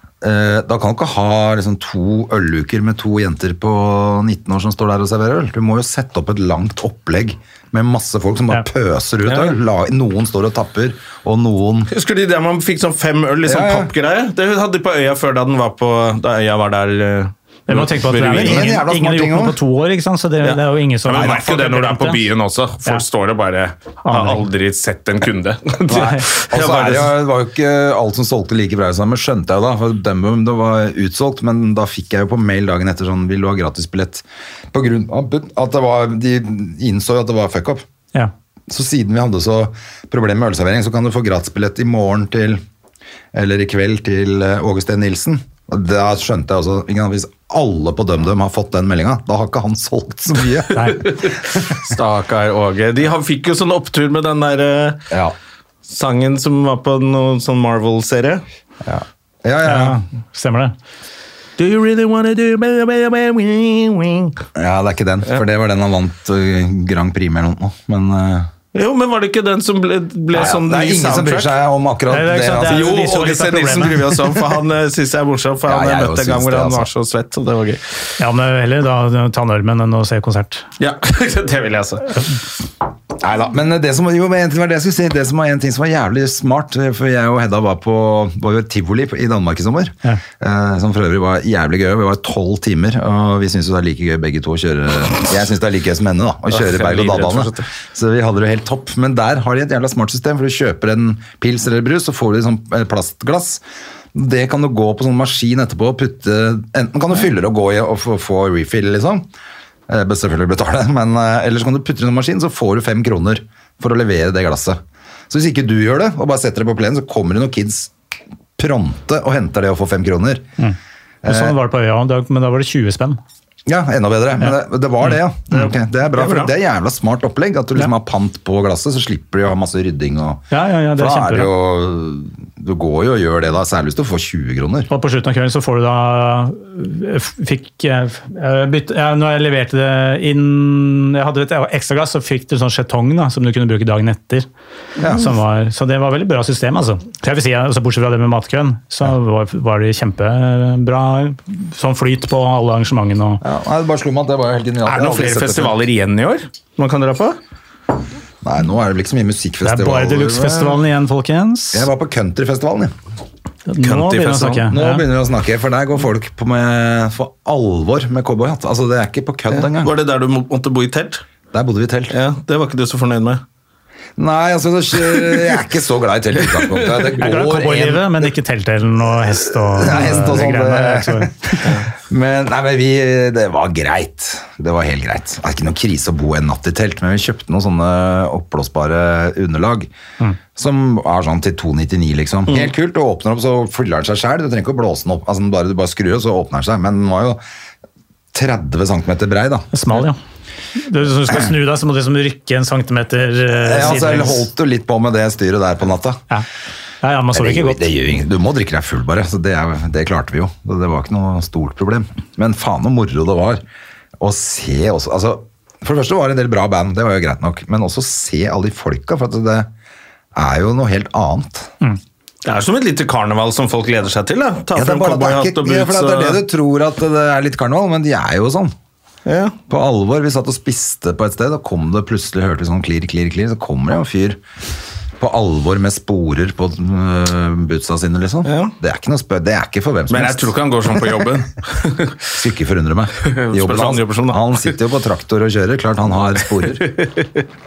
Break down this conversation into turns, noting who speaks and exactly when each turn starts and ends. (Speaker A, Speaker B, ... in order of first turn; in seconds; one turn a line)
Speaker A: 0.2-11.9
Speaker B: 9.3-9.5
Speaker B: 11.9-18.7
Speaker A: 13.4-13.9
Speaker C: 17.7-22.2
Speaker A: 18.2-19.6
Speaker B: 20.4-27.1
Speaker C: 24.0-24.5
Speaker A: 25.9-37.9
Speaker C: 25.9-26.2
Speaker A: 38.7-42.6
Speaker A: 43.3-51.7
Speaker C: 50.7-51.1
Speaker B: 51.0-55.0
Speaker A: 55.1-55.4
Speaker B: 55.9-58.4
Speaker A: 58.8-60.0
Speaker C: 59.6-60.7
Speaker B: 61.6-64.4
Speaker A: 64.5-68.5
Speaker B: 68.7-71.5
Speaker A: 70.3-72.9
Speaker C: 72.1-74.0
Speaker B: 72.7-77.8
Speaker A: 75.7-76.9
Speaker C: 78.2-80.7
Speaker B: 80.8-82.2
Speaker A: 83.2-103.6
Speaker B: 96.5-97.7
Speaker A: 104.1-109.3
Speaker A: 109.9-117.9
Speaker A: 118.6-120.5
Speaker C: 120.6-123.2
Speaker A: 121.2-121.6
Speaker A: 123.7-134.9
Speaker C: 130.5-131.5
Speaker C: 134.9-144.5
Speaker A: 145.0-145.3
Speaker C: 145.1-153.4
Speaker A: 153.4-155.7
Speaker B: 154.8-157.4
Speaker A: 158.4-160.8
Speaker C: 159.6-161.9
Speaker A: 161.7-162.9
Speaker C: 163.7-165.1
Speaker B: 163.8-164.7
Speaker A: 164.7-169.9
Speaker B: 169.8-171.2
Speaker A: 171.5-172.2
Speaker B: 172.1-173.4
Speaker A: 174.2-178.3
Speaker B: 176.7-177.1
Speaker C: 177.2-181.7
Speaker A: 179.7-189.9
Speaker A: 190.6-197.4
Speaker A: 198.3-199.7
Speaker C: 199.7-200.2
Speaker C: 200.8-204.4
Speaker A: 203.5-206.2
Speaker C: 207.0-207.8
Speaker A: 207.3-213.6
Speaker A: 214.2-219.7
Speaker A: 220.3-221.7
Speaker B: 222.4-226.4
Speaker A: 224.7-228.8
Speaker B: 229.3-229.6
Speaker A: 229.7-234.4
Speaker A: 235.2-241.3
Speaker B: 238.4-238.7
Speaker B: 240.1-242.3
Speaker A: 242.3-246.9
Speaker B: 243.2-244.7
Speaker B: 246.8-247.4